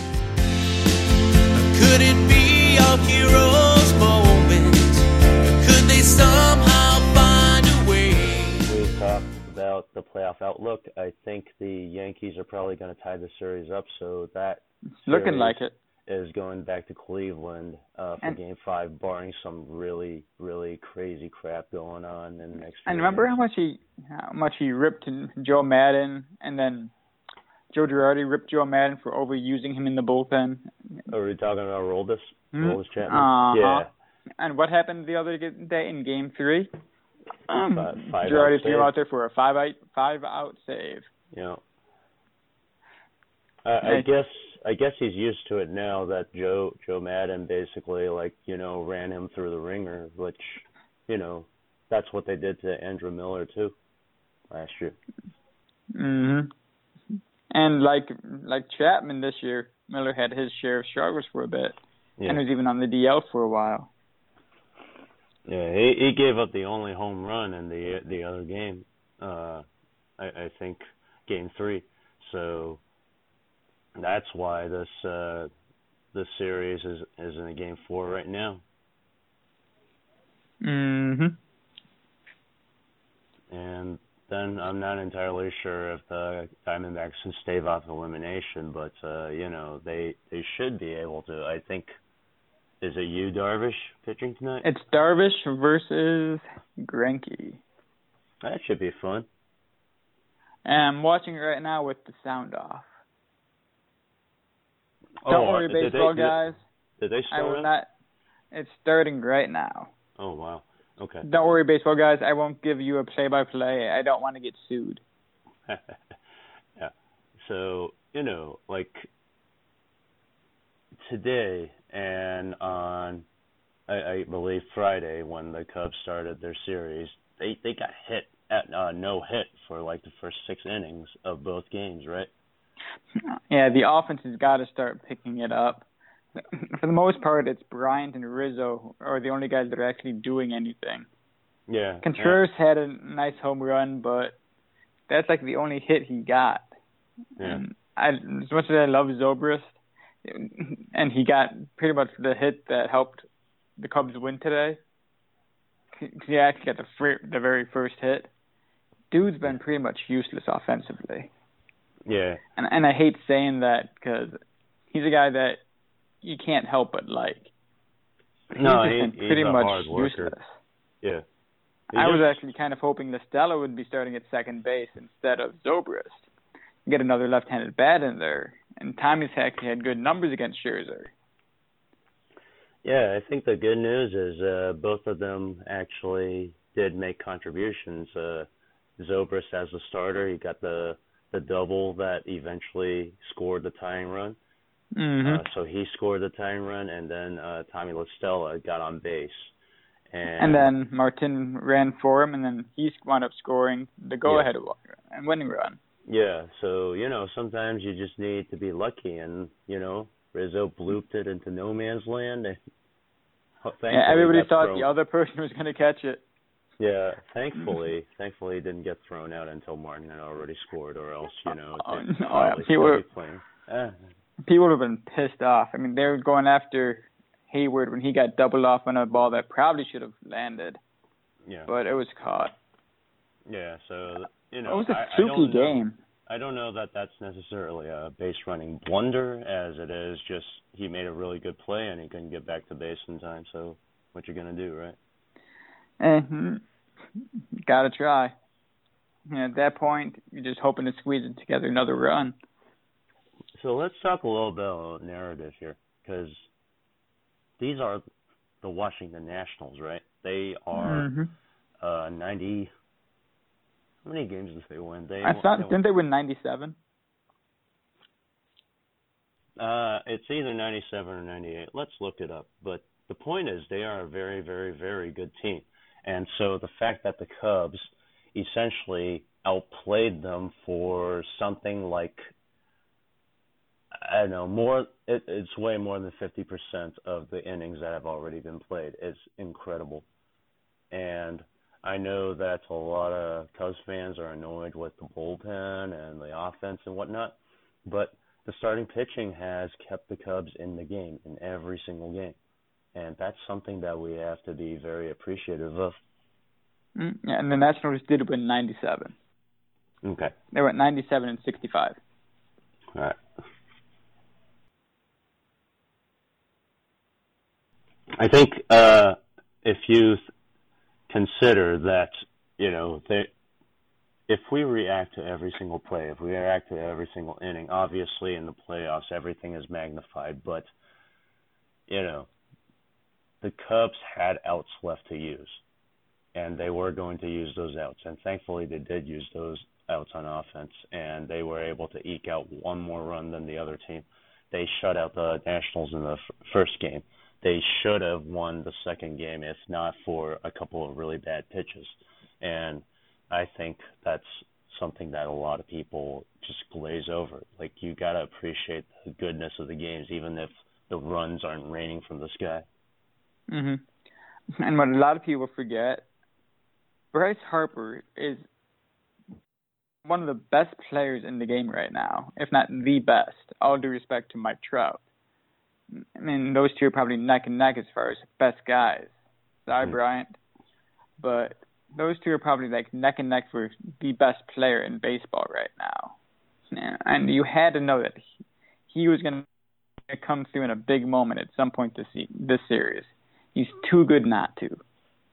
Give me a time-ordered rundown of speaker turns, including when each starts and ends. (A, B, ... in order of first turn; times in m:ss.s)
0:01.5-0:08.7 A
0:08.6-0:23.3 B
0:15.0-0:15.7 C
0:22.9-0:26.9 C
0:27.7-0:30.7 C
0:31.1-0:33.9 B
0:32.5-0:33.9 C
0:34.4-0:36.7 C
0:37.5-0:41.1 C
0:37.8-0:38.9 B
0:41.3-0:41.6 B
0:43.6-0:53.8 B
0:54.5-0:55.0 B
0:55.9-0:56.5 C
0:57.5-1:01.8 C
1:02.3-1:03.9 C
1:05.5-1:09.6 B
1:10.2-1:12.8 B
1:14.0-1:15.5 B
1:16.1-1:18.6 B
1:20.6-1:21.4 C
1:23.5-1:31.9 B
1:32.8-1:34.6 B
1:34.6-1:37.6 C
1:38.4-1:39.3 B
1:40.6-1:42.8 C
1:45.2-1:46.4 B
1:45.3-1:46.6 C
1:47.0-1:47.7 B
1:47.3-1:47.9 C
1:48.5-1:49.9 C
1:50.2-1:51.3 B
1:51.2-1:55.0 C
1:55.7-1:56.0 B
1:56.8-1:59.1 B
2:01.0-2:03.3 B
2:03.9-2:12.3 B
2:13.3-2:15.9 C
2:16.4-2:21.1 C
2:21.7-2:22.4 B
2:22.0-2:24.4 C
2:25.1-2:26.7 C
2:27.4-2:33.2 C
2:33.8-2:34.8 C
2:36.0-2:38.3 C
2:39.1-2:41.3 C
2:42.1-2:42.4 B
2:42.6-2:44.4 C
2:44.9-2:45.6 C
2:46.2-2:47.5 C
2:48.5-2:50.4 B
2:48.6-2:50.5 C
2:51.9-2:52.4 B
2:51.9-2:56.2 C
2:56.9-3:01.1 C
3:02.8-3:14.4 B
3:15.0-3:15.4 C
3:15.2-3:19.5 B
3:20.1-3:20.7 B
3:20.4-3:25.8 C
3:24.2-3:24.5 B
3:26.1-3:32.6 B
3:33.6-3:34.9 B
3:33.9-3:36.2 C
3:36.8-3:44.0 B
3:41.8-3:43.0 C
3:44.4-3:50.8 C
3:51.4-3:51.7 B
3:51.7-3:52.6 C
3:53.5-4:05.0 B
3:54.7-3:56.0 C
4:06.0-4:06.6 C
4:07.7-4:08.3 C
4:09.3-4:12.4 C
4:13.6-4:16.5 B
4:17.6-4:18.0 B
4:18.6-4:21.1 B
4:20.8-4:21.3 C
4:21.8-4:22.7 B
4:24.0-4:25.8 B
4:25.2-4:26.8 C
4:29.6-4:42.2 B
4:43.9-4:50.1 B
4:50.9-5:02.4 B
5:02.9-5:06.0 B
5:07.0-5:09.1 C
5:10.0-5:10.3 B
5:10.5-5:12.0 C
5:12.9-5:13.2 B
5:18.2-5:20.2 B
5:21.1-5:23.3 B
5:24.3-5:30.7 B
5:31.9-5:32.3 B
5:33.4-5:35.6 B
5:36.4-6:02.7 B
6:03.5-6:03.8 C
6:04.6-6:06.0 C
6:07.1-6:08.4 C
6:10.0-6:15.0 C
6:16.0-6:19.1 C
6:19.7-6:20.4 C
6:21.2-6:26.2 C
6:26.7-6:28.2 C
6:28.9-6:29.5 C
6:30.1-6:34.8 C